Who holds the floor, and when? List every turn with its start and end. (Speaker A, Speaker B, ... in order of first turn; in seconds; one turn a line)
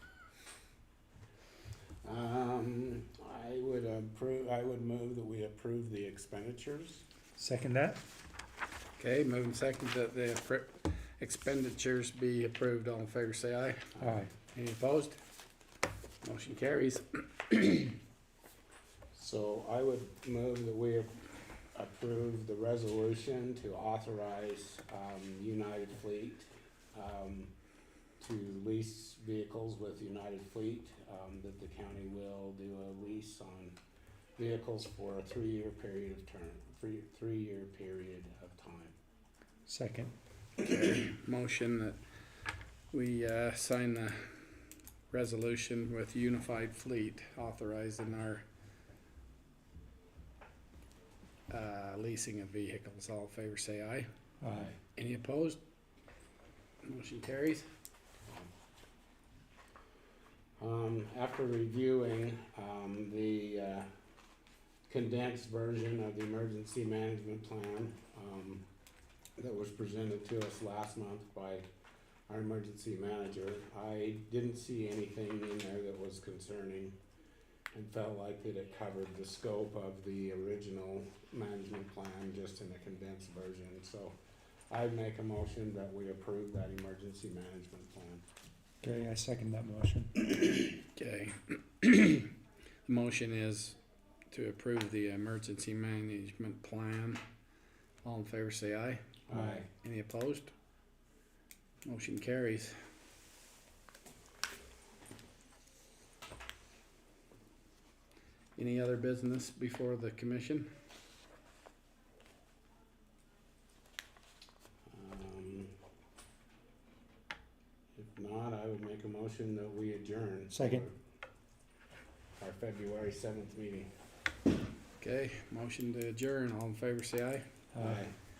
Speaker A: 2.0-7.0
Speaker B: 7.3-8.0
Speaker C: 9.0-13.9
Speaker B: 14.0-14.3
Speaker C: 14.5-15.2
Speaker C: 16.2-18.0
Speaker A: 19.1-21.2
Speaker A: 21.7-27.5
Speaker A: 28.2-33.8
Speaker A: 34.4-39.0
Speaker B: 39.7-40.1
Speaker C: 40.7-42.0
Speaker C: 42.9-44.5
Speaker C: 45.1-48.4
Speaker C: 51.5-54.1
Speaker B: 54.4-54.7
Speaker C: 55.0-55.6
Speaker C: 56.8-57.6
Speaker A: 60.6-63.9
Speaker A: 64.9-68.6
Speaker A: 69.4-71.7
Speaker A: 72.3-77.0
Speaker A: 77.7-84.2
Speaker A: 84.7-88.2
Speaker B: 88.8-90.2
Speaker C: 90.9-92.3
Speaker C: 92.8-93.8
Speaker C: 94.3-97.2
Speaker C: 98.0-99.2
Speaker A: 99.3-99.7
Speaker B: 99.3-99.6
Speaker C: 99.7-100.5
Speaker C: 101.8-102.8
Speaker C: 108.5-110.7
Speaker A: 114.9-115.7
Speaker A: 118.0-120.9
Speaker B: 120.5-120.8
Speaker A: 122.4-123.9
Speaker C: 125.0-127.4
Speaker B: 127.7-128.0
Speaker A: 127.8-128.1